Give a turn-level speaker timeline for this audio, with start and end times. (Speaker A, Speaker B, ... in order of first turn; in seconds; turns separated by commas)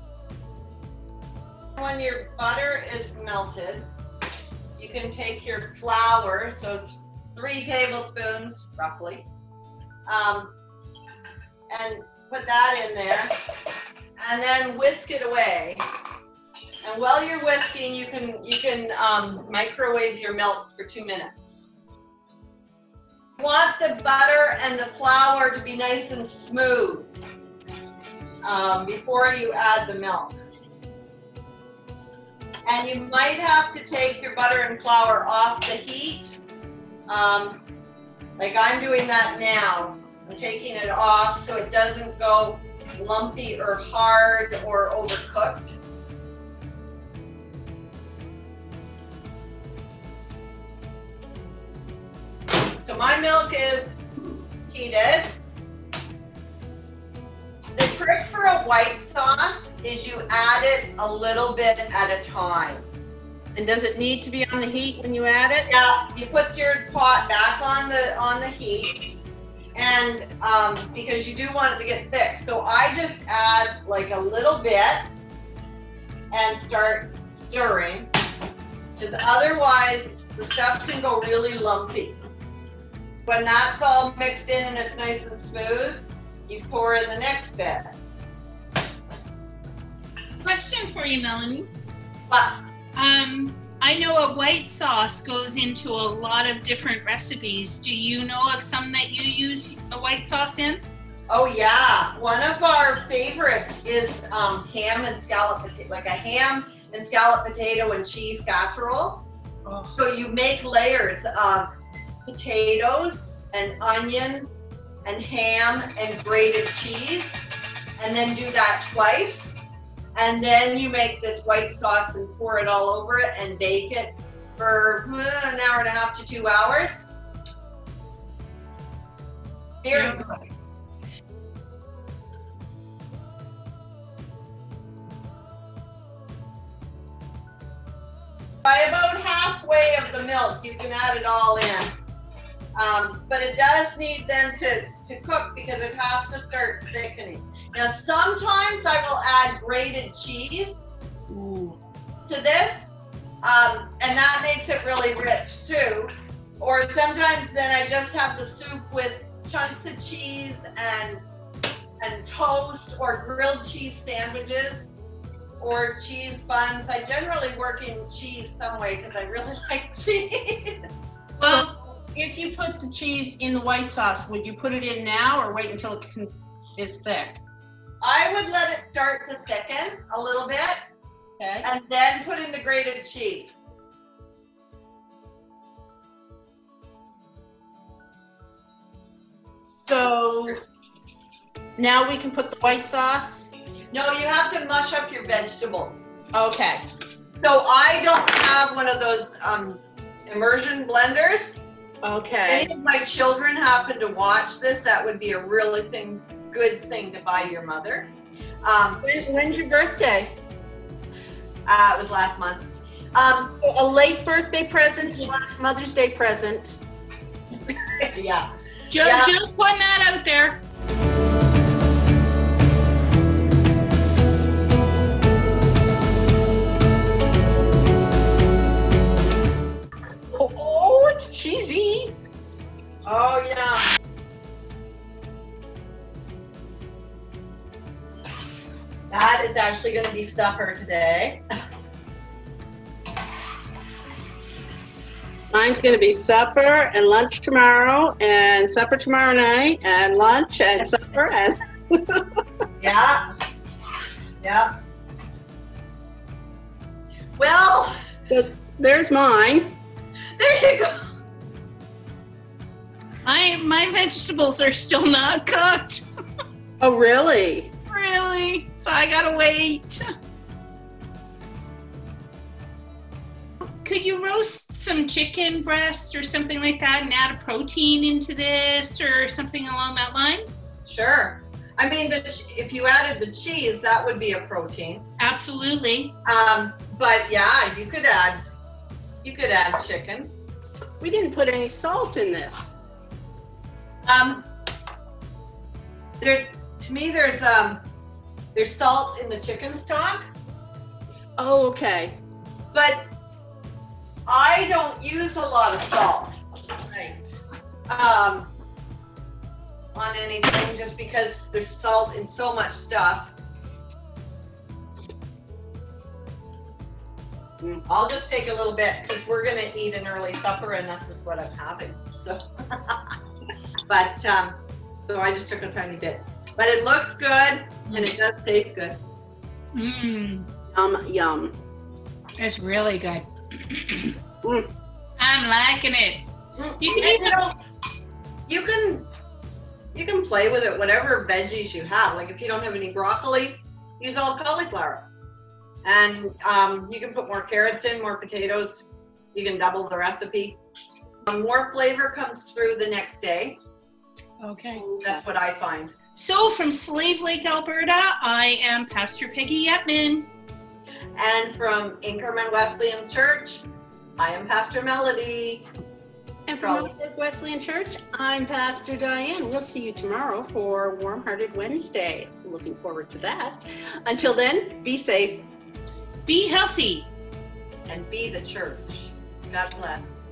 Speaker A: 1.8-3.9, Speaker A: 4.8-9.3, Speaker A: 10.1-10.5, Speaker A: 11.7-13.3, Speaker A: 14.2-15.8, Speaker A: 16.8-21.7, Speaker A: 23.4-27.2, Speaker A: 28.4-30.4, Speaker A: 32.7-36.3, Speaker A: 37.1-37.6, Speaker A: 38.4-45.8, Speaker A: 52.8-54.0, Speaker A: 54.7-55.3, Speaker A: 57.7-62.9, Speaker B: 63.5-65.7, Speaker A: 65.7-69.0, Speaker A: 69.7-75.1, Speaker A: 76.3-78.1, Speaker A: 78.9-82.2, Speaker A: 83.2-87.9, Speaker C: 90.4-91.7, Speaker C: 93.0-100.8, Speaker A: 101.3-109.2, Speaker C: 109.7-109.9, Speaker A: 109.9-111.7, Speaker A: 112.2-117.4, Speaker A: 118.0-119.5, Speaker A: 120.2-127.1, Speaker A: 129.8-130.4, Speaker C: 129.9-130.3, Speaker A: 138.6-141.9, Speaker A: 142.8-150.8, Speaker C: 151.3-151.8, Speaker A: 152.2-152.9, Speaker A: 153.4-161.2, Speaker A: 162.0-164.9, Speaker A: 165.6-170.8, Speaker B: 171.4-177.4, Speaker A: 178.0-180.8, Speaker B: 181.4-181.7, Speaker A: 181.6-183.6, Speaker B: 189.8-190.6, Speaker B: 191.8-193.5, Speaker A: 193.9-196.1, Speaker B: 196.3-196.8, Speaker A: 197.4-201.6, Speaker B: 202.0-202.7, Speaker A: 202.5-208.1, Speaker A: 208.6-209.2, Speaker B: 209.0-210.4, Speaker A: 211.7-213.5, Speaker B: 213.6-216.8, Speaker A: 215.0-215.3, Speaker A: 218.0-218.5, Speaker C: 218.9-220.6, Speaker A: 219.0-219.3, Speaker B: 230.3-232.1, Speaker A: 233.1-233.9, Speaker A: 239.1-241.4, Speaker B: 245.5-251.6, Speaker A: 252.8-253.2, Speaker A: 254.4-254.7, Speaker A: 257.4-258.0, Speaker B: 258.3-259.8, Speaker A: 260.4-261.0, Speaker C: 263.2-266.0, Speaker B: 266.8-267.7, Speaker C: 267.9-270.0, Speaker C: 273.8-280.5, Speaker A: 280.9-285.1, Speaker C: 285.2-286.1, Speaker A: 286.2-288.4, Speaker A: 289.2-290.3, Speaker B: 291.0-292.8, Speaker A: 294.1-294.5, Speaker A: 296.2-297.8, Speaker A: 298.5-300.2, Speaker B: 301.4-302.2, Speaker A: 302.7-303.0, Speaker A: 304.3-306.4, Speaker B: 306.9-307.3, Speaker A: 307.9-308.5, Speaker A: 309.9-313.3, Speaker A: 317.9-323.0, Speaker A: 323.9-329.0, Speaker C: 329.7-330.5, Speaker B: 330.7-331.6, Speaker C: 332.4-334.1, Speaker B: 334.4-334.7, Speaker C: 335.2-336.2, Speaker A: 336.6-337.5, Speaker C: 336.8-337.4, Speaker A: 338.5-339.1, Speaker A: 339.9-345.1, Speaker A: 345.8-350.6, Speaker A: 351.2-353.6, Speaker C: 354.4-354.9, Speaker B: 354.8-355.2, Speaker A: 355.0-355.9, Speaker C: 356.1-360.3, Speaker A: 361.2-363.6, Speaker A: 364.2-365.6, Speaker B: 366.5-375.5, Speaker A: 366.6-366.9, Speaker C: 376.3-377.1, Speaker A: 377.9-380.1